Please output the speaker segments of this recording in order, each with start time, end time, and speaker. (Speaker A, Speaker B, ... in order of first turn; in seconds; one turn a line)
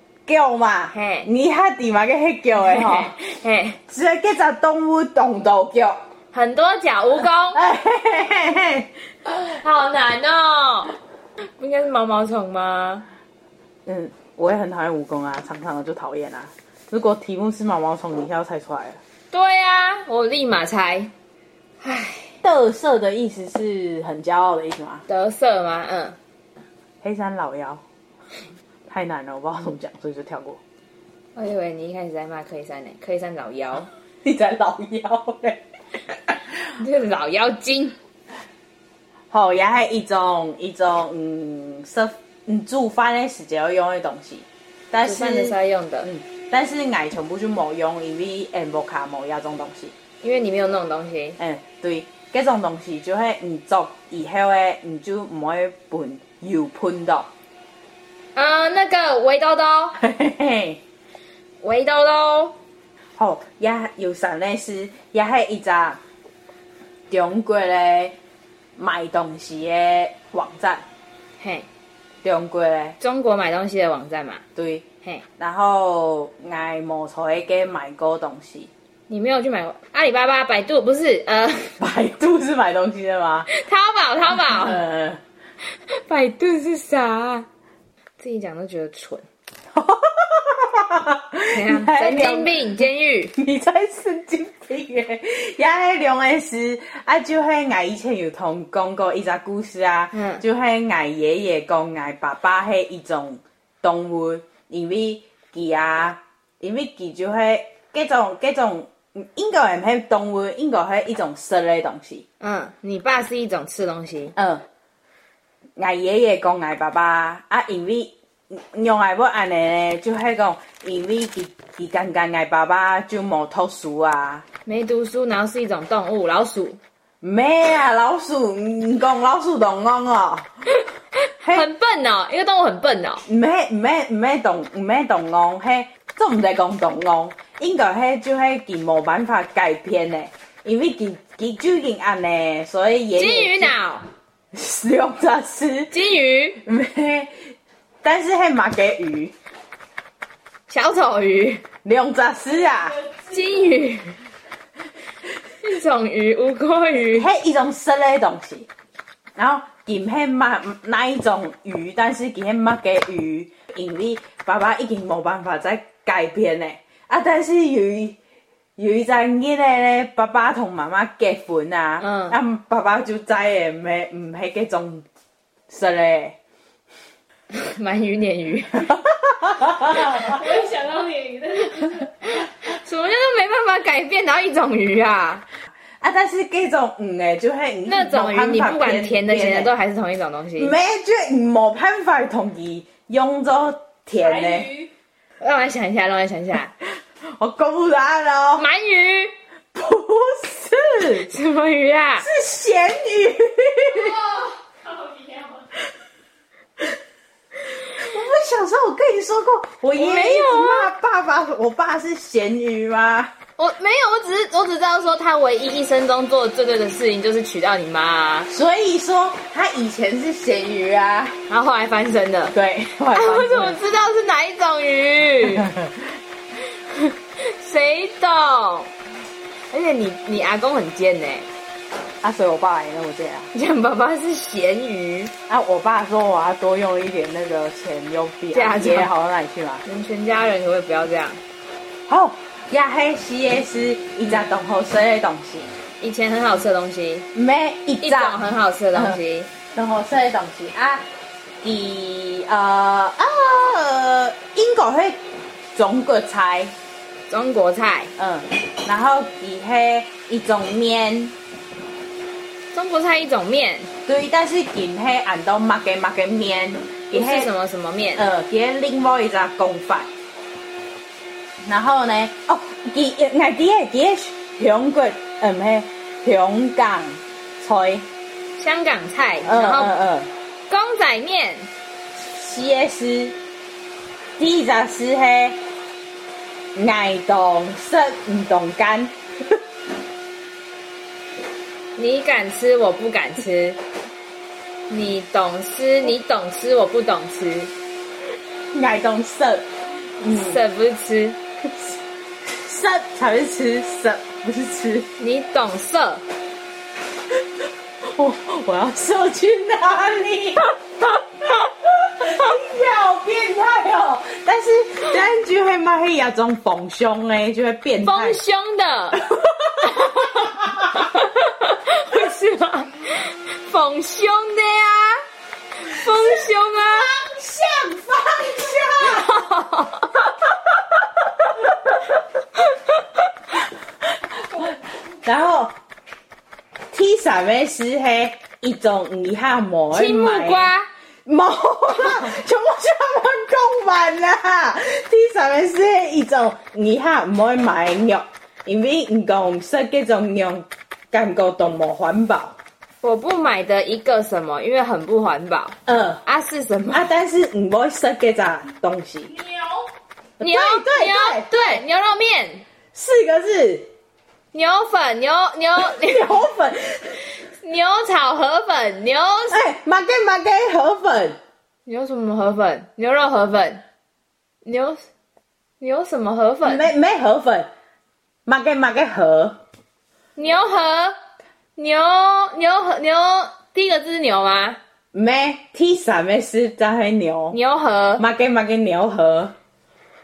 Speaker A: 0.3-3.1
Speaker B: 0.9-1.3
Speaker B: 2.6-3.8
Speaker A: 3.9-6.0
Speaker B: 6.3-7.6
Speaker A: 7.5-8.9
Speaker B: 9.3-10.9
Speaker B: 11.6-13.1
Speaker A: 13.8-19.0
Speaker B: 19.3-21.1
Speaker B: 21.8-22.3
Speaker A: 22.4-25.0
Speaker B: 25.1-26.2
Speaker A: 27.0-27.8
Speaker A: 28.9-30.6
Speaker B: 31.4-33.9
Speaker A: 34.2-35.6
Speaker B: 36.7-38.0
Speaker A: 39.3-49.9
Speaker B: 45.0-46.1
Speaker B: 50.2-51.4
Speaker A: 51.4-57.3
Speaker B: 58.4-60.0
Speaker A: 60.0-60.8
Speaker B: 61.6-62.5
Speaker A: 63.2-66.0
Speaker A: 67.1-68.2
Speaker A: 68.8-70.8
Speaker B: 71.4-71.7
Speaker A: 72.2-73.0
Speaker B: 73.0-74.4
Speaker A: 74.5-74.8
Speaker A: 75.4-78.7
Speaker B: 79.1-81.7
Speaker A: 81.8-83.5
Speaker B: 83.5-84.8
Speaker A: 84.4-85.2
Speaker B: 85.9-87.5
Speaker B: 88.2-89.2
Speaker A: 89.7-92.5
Speaker B: 91.5-93.3
Speaker A: 93.4-112.2
Speaker B: 100.1-100.4
Speaker B: 112.4-114.3
Speaker A: 114.3-114.6
Speaker A: 115.8-124.5
Speaker B: 124.7-126.8
Speaker A: 127.2-130.5
Speaker B: 131.4-133.2
Speaker A: 133.2-143.7
Speaker B: 143.2-144.1
Speaker A: 144.5-145.9
Speaker B: 145.9-146.6
Speaker A: 146.6-147.4
Speaker A: 148.0-149.3
Speaker B: 150.7-151.6
Speaker A: 151.8-153.0
Speaker B: 153.2-154.2
Speaker B: 155.6-157.3
Speaker A: 157.1-158.7
Speaker A: 159.3-168.2
Speaker A: 168.8-175.1
Speaker B: 172.0-172.3
Speaker A: 175.7-176.4
Speaker B: 177.5-178.9
Speaker A: 178.9-180.4
Speaker C: 180.1-182.1
Speaker B: 182.3-185.4
Speaker A: 186.0-189.7
Speaker B: 187.9-190.7
Speaker A: 190.6-194.8
Speaker C: 194.2-194.9
Speaker B: 195.4-196.7
Speaker A: 197.2-198.7
Speaker B: 198.6-199.3
Speaker A: 199.7-201.3
Speaker B: 201.2-202.3
Speaker A: 202.2-204.2
Speaker C: 203.9-205.6
Speaker A: 207.9-213.3
Speaker B: 209.9-210.9
Speaker B: 213.6-218.5
Speaker A: 218.5-221.4
Speaker B: 221.5-222.5
Speaker A: 222.5-223.8
Speaker B: 223.1-225.7
Speaker A: 225.5-225.9
Speaker B: 226.9-228.9
Speaker B: 229.7-231.5
Speaker A: 232.2-233.5
Speaker B: 233.5-235.3
Speaker A: 235.5-239.8
Speaker B: 238.5-239.1
Speaker B: 239.8-241.4
Speaker A: 242.1-245.7
Speaker B: 246.0-247.3
Speaker A: 247.3-248.4
Speaker B: 248.0-249.5
Speaker A: 248.9-251.0
Speaker A: 251.6-255.2
Speaker A: 255.7-256.7
Speaker B: 257.3-258.1
Speaker A: 258.2-261.4
Speaker B: 262.7-263.9
Speaker A: 264.1-267.5
Speaker B: 267.1-268.2
Speaker A: 268.1-270.1
Speaker A: 271.6-278.1
Speaker B: 278.6-279.9
Speaker A: 279.4-280.3
Speaker B: 280.7-281.7
Speaker A: 282.2-283.4
Speaker A: 284.4-285.6
Speaker A: 286.7-289.6
Speaker B: 291.9-293.8
Speaker B: 294.9-297.7
Speaker A: 298.7-299.7
Speaker B: 300.2-301.4
Speaker A: 300.2-300.6
Speaker A: 301.6-305.1
Speaker B: 305.2-306.2
Speaker A: 308.0-310.7
Speaker A: 311.4-318.4
Speaker B: 318.0-319.2
Speaker A: 319.1-321.0
Speaker B: 319.9-325.2
Speaker B: 325.8-327.1
Speaker A: 325.9-329.4
Speaker B: 329.0-330.4
Speaker B: 332.6-333.0
Speaker A: 334.0-335.8
Speaker A: 336.9-340.7
Speaker B: 339.9-340.9
Speaker A: 341.2-352.6
Speaker B: 353.0-357.0
Speaker A: 355.9-356.2
Speaker A: 356.9-359.3
Speaker C: 359.3-359.9
Speaker A: 360.4-361.7
Speaker B: 360.4-362.6
Speaker A: 362.9-363.9
Speaker B: 364.5-366.3
Speaker A: 365.8-367.2
Speaker B: 367.5-369.6
Speaker A: 369.5-371.4
Speaker B: 371.9-373.8
Speaker B: 374.6-375.1
Speaker B: 375.8-376.9
Speaker A: 376.6-377.7
Speaker A: 378.4-379.6
Speaker B: 380.4-381.2
Speaker B: 381.8-384.8
Speaker A: 385.1-387.6
Speaker B: 387.5-388.2
Speaker A: 388.2-389.5